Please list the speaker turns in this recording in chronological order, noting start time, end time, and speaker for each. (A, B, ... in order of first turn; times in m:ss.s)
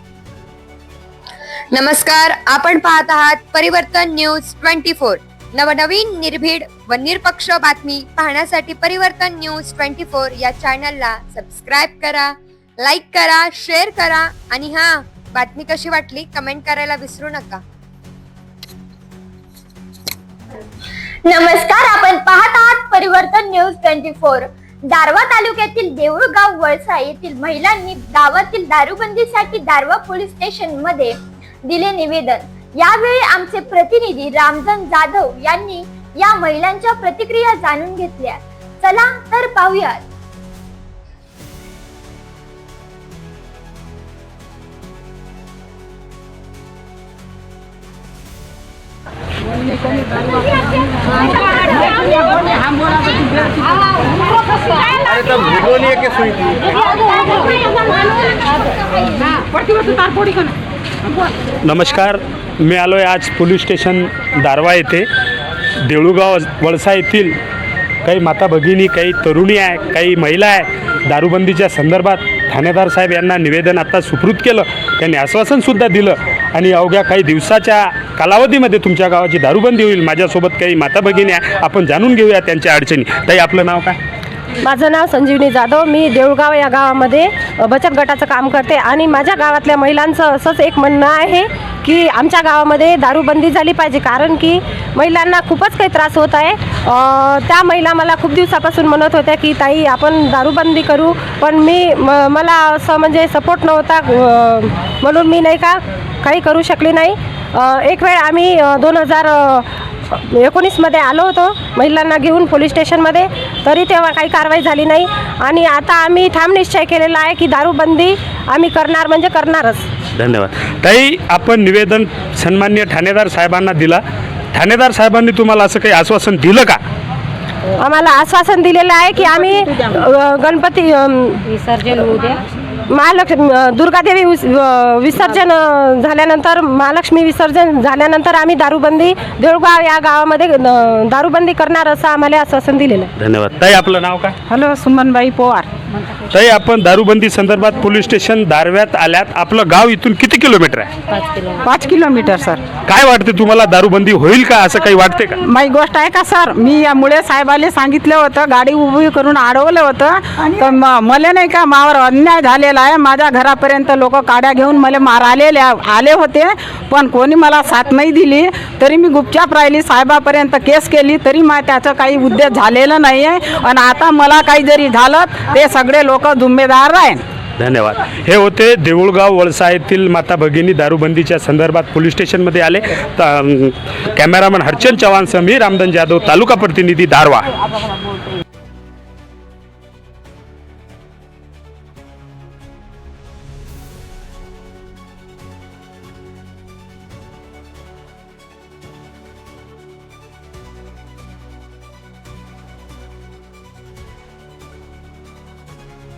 0:01.7-0:17.6 A
0:21.3-0:31.2 B
0:31.7-0:40.0 B
1:01.6-1:05.1 C
1:05.8-1:07.4 C
1:08.0-1:24.0 C
1:24.6-1:59.9 D
2:00.2-2:04.0 C
2:04.5-2:06.8 C
2:07.8-2:23.1 D
2:23.2-2:24.4 C
2:24.5-2:25.7 E
2:26.3-2:30.9 C
2:31.6-2:32.6 E
2:32.9-2:35.4 C
2:35.4-2:57.2 E
2:57.6-3:07.5 C